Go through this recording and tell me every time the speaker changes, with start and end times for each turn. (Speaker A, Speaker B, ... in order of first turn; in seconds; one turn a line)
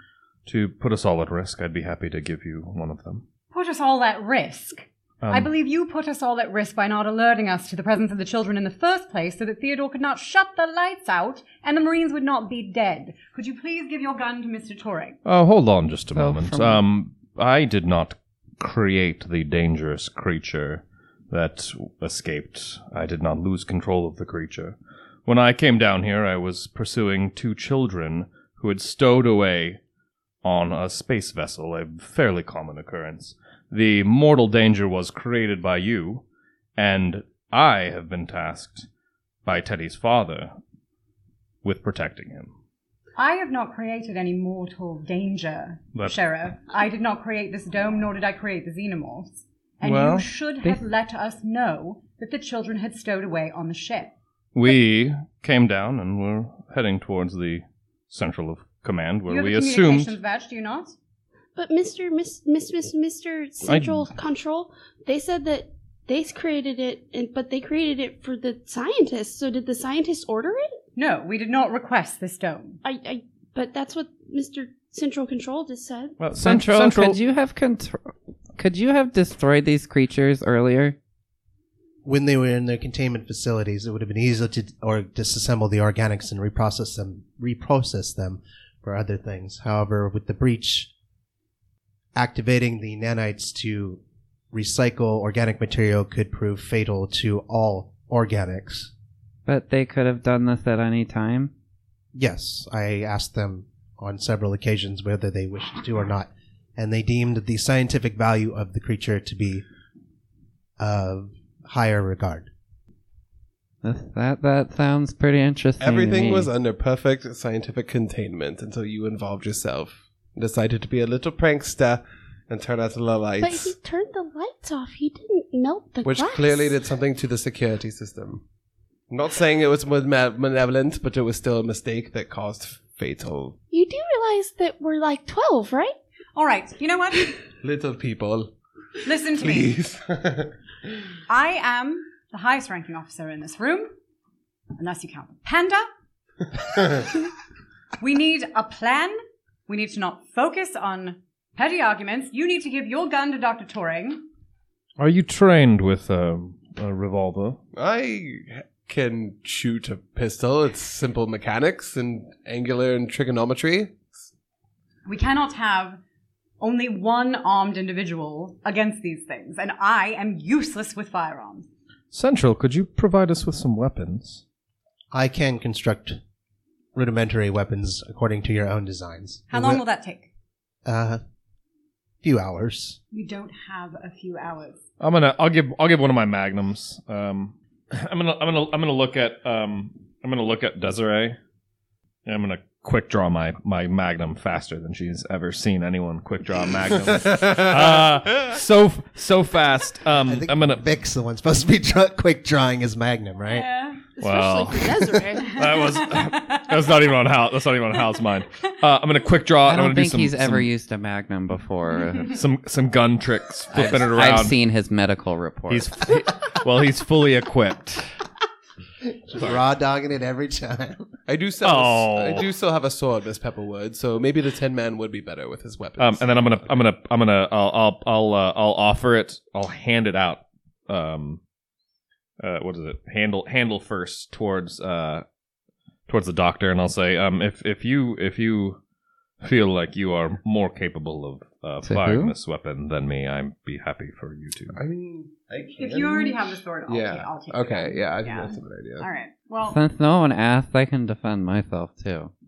Speaker A: 0.5-3.2
Speaker B: 3.5-15.2
Speaker A: 5.2-5.5
Speaker A: 15.2-29.8
Speaker C: 16.1-16.8
Speaker A: 30.4-36.2
Speaker A: 36.8-38.9
Speaker A: 39.5-40.5
Speaker A: 41.6-42.5
Speaker B: 43.2-54.1
Speaker A: 49.8-50.3
Speaker A: 54.5-60.2
Speaker B: 59.3-60.9
Speaker D: 61.6-70.8
Speaker A: 63.6-64.1
Speaker B: 71.0-72.8
Speaker D: 72.8-76.2
Speaker A: 76.2-77.2
Speaker C: 76.4-81.0
Speaker E: 82.0-90.9
Speaker E: 92.2-98.9
Speaker C: 99.5-101.5
Speaker E: 102.2-109.7
Speaker E: 110.8-112.5
Speaker C: 113.8-116.5
Speaker F: 115.8-123.8
Speaker D: 123.4-126.8
Speaker F: 126.0-128.4
Speaker F: 129.1-133.6
Speaker D: 133.7-135.9
Speaker B: 136.3-137.4
Speaker F: 137.6-138.5
Speaker B: 139.1-139.7
Speaker F: 139.4-140.5
Speaker B: 141.3-143.9
Speaker B: 144.8-145.9
Speaker B: 148.0-154.2
Speaker A: 155.0-157.6
Speaker F: 157.7-164.3
Speaker B: 165.1-166.0
Speaker B: 166.6-171.7
Speaker A: 172.1-174.4
Speaker E: 175.1-176.2
Speaker E: 176.9-179.8
Speaker B: 179.5-180.3
Speaker E: 180.9-181.2
Speaker E: 182.2-183.0
Speaker B: 183.1-184.8
Speaker A: 185.0-191.4
Speaker A: 192.3-200.8
Speaker E: 200.2-203.7
Speaker B: 203.5-204.0
Speaker D: 204.2-205.7
Speaker A: 204.2-210.7
Speaker B: 205.5-206.7
Speaker C: 209.7-212.4
Speaker B: 212.1-212.4
Speaker A: 212.3-214.6
Speaker C: 213.7-216.0
Speaker A: 215.7-218.1
Speaker E: 219.0-221.1
Speaker F: 221.3-226.6
Speaker A: 221.6-222.5
Speaker A: 226.0-231.4
Speaker A: 232.4-235.2
Speaker A: 236.1-238.8
Speaker A: 239.4-244.8
Speaker C: 241.8-242.3
Speaker F: 244.7-249.1
Speaker B: 245.8-249.8
Speaker C: 249.7-252.3